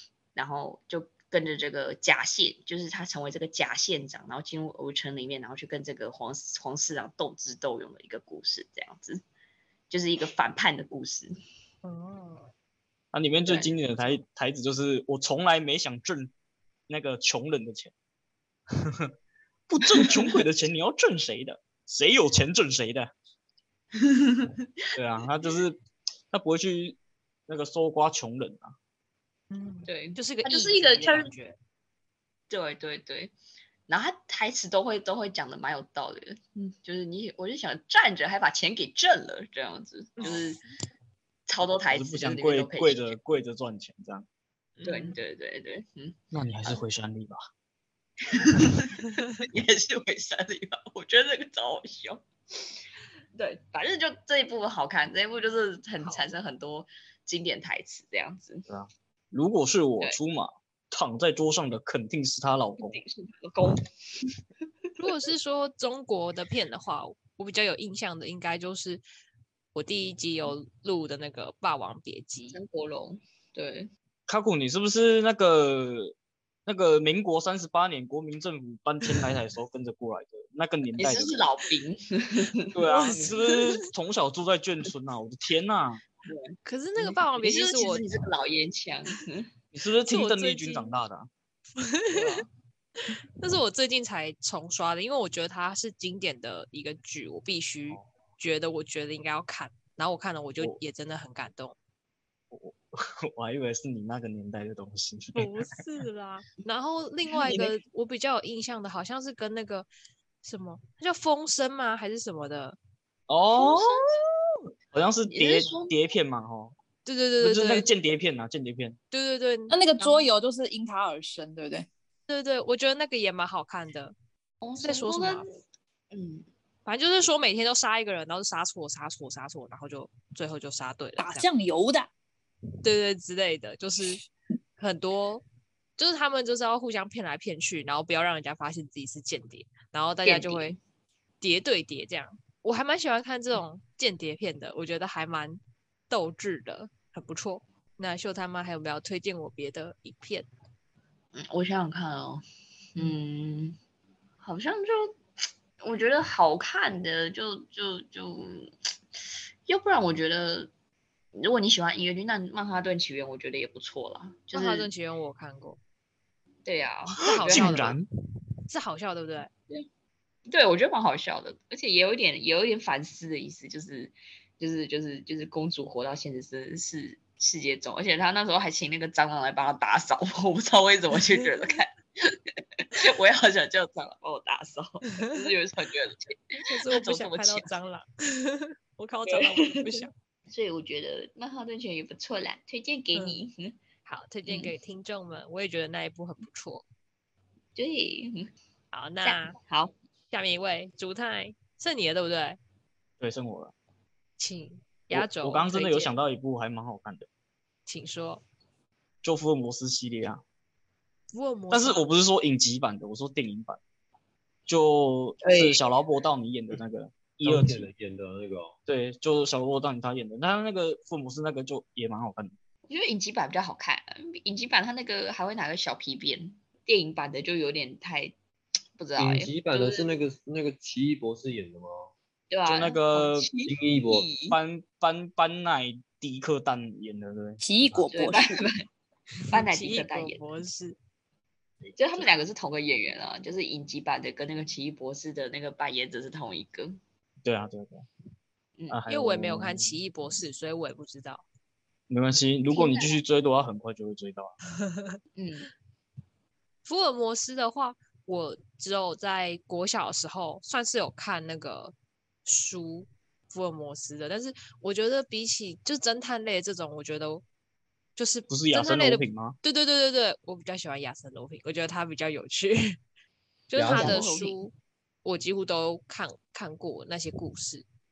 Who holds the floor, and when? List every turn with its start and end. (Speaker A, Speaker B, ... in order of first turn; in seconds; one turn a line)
Speaker A: 0.3-9.2
Speaker A: 9.9-11.3
Speaker B: 11.8-12.5
Speaker C: 13.1-16.3
Speaker A: 13.5-13.7
Speaker C: 16.9-17.9
Speaker C: 18.8-19.1
Speaker C: 19.7-23.1
Speaker A: 20.0-20.2
Speaker A: 24.0-24.7
Speaker C: 24.9-25.8
Speaker C: 26.3-27.0
Speaker C: 27.5-28.8
Speaker B: 29.5-31.6
Speaker A: 29.9-31.3
Speaker A: 32.5-33.3
Speaker A: 33.9-40.6
Speaker B: 40.2-40.4
Speaker A: 41.5-43.2
Speaker C: 41.9-44.2
Speaker B: 44.8-45.2
Speaker A: 44.9-46.8
Speaker C: 46.3-47.5
Speaker A: 48.2-52.6
Speaker A: 53.4-58.6
Speaker B: 56.0-56.3
Speaker C: 58.7-63.0
Speaker A: 62.8-64.3
Speaker B: 65.0-69.0
Speaker B: 69.7-72.6
Speaker A: 72.5-73.9
Speaker C: 74.3-76.1
Speaker C: 76.7-81.4
Speaker A: 81.0-83.3
Speaker C: 82.8-86.0
Speaker B: 82.9-83.6
Speaker A: 86.2-89.5
Speaker B: 86.7-88.0
Speaker C: 89.7-91.3
Speaker B: 90.1-90.9
Speaker B: 91.8-92.5
Speaker A: 92.1-92.4
Speaker B: 93.4-101.8
Speaker C: 102.5-105.5
Speaker B: 105.3-109.9
Speaker A: 107.4-107.7
Speaker B: 110.4-112.8
Speaker C: 113.3-114.2
Speaker A: 113.5-114.2
Speaker C: 114.9-116.8
Speaker A: 115.3-115.9
Speaker B: 117.0-117.9
Speaker C: 117.4-119.0
Speaker B: 119.1-120.2
Speaker D: 119.7-121.9
Speaker B: 122.3-124.1
Speaker A: 124.6-125.6
Speaker B: 124.8-125.5
Speaker A: 126.1-126.5
Speaker B: 126.8-131.5
Speaker D: 131.2-132.1
Speaker B: 132.8-134.2
Speaker B: 134.8-135.4
Speaker B: 136.0-140.8
Speaker A: 140.2-140.8
Speaker B: 141.4-150.5
Speaker A: 151.3-152.4
Speaker A: 153.0-153.8
Speaker A: 154.4-155.2
Speaker A: 155.8-158.7
Speaker A: 159.7-160.7
Speaker A: 161.3-164.9
Speaker B: 164.5-165.8
Speaker A: 166.7-167.9
Speaker B: 167.2-167.9
Speaker C: 167.3-168.1
Speaker B: 168.7-169.5
Speaker A: 170.5-187.7
Speaker B: 186.7-190.1
Speaker A: 189.3-193.8
Speaker B: 193.1-193.4
Speaker B: 194.1-196.8
Speaker A: 194.5-194.7
Speaker A: 197.8-198.5
Speaker B: 198.9-199.6
Speaker A: 199.2-199.9
Speaker B: 200.3-202.6
Speaker C: 203.2-203.7
Speaker B: 204.4-206.1
Speaker C: 205.1-207.3
Speaker B: 207.9-208.4
Speaker C: 209.2-210.4
Speaker B: 211.3-212.1
Speaker C: 211.7-213.8
Speaker C: 214.7-217.9
Speaker A: 215.4-215.8
Speaker E: 217.4-218.7
Speaker C: 218.9-222.5
Speaker A: 222.9-228.3
Speaker A: 229.0-230.1
Speaker E: 229.2-232.1
Speaker A: 232.5-234.6
Speaker C: 232.7-233.5
Speaker E: 233.7-234.3
Speaker C: 234.4-237.6
Speaker D: 237.6-238.7
Speaker A: 238.1-238.8
Speaker A: 239.5-240.5
Speaker B: 239.5-241.0
Speaker A: 242.0-247.0
Speaker C: 247.4-248.1
Speaker C: 248.9-250.0
Speaker B: 249.1-251.4
Speaker C: 252.1-254.6
Speaker A: 252.7-253.2
Speaker A: 255.4-255.7
Speaker B: 256.9-261.9
Speaker B: 262.4-267.4
Speaker B: 268.2-273.0
Speaker C: 268.5-269.6
Speaker B: 273.7-277.9
Speaker E: 273.8-274.3
Speaker A: 273.9-274.6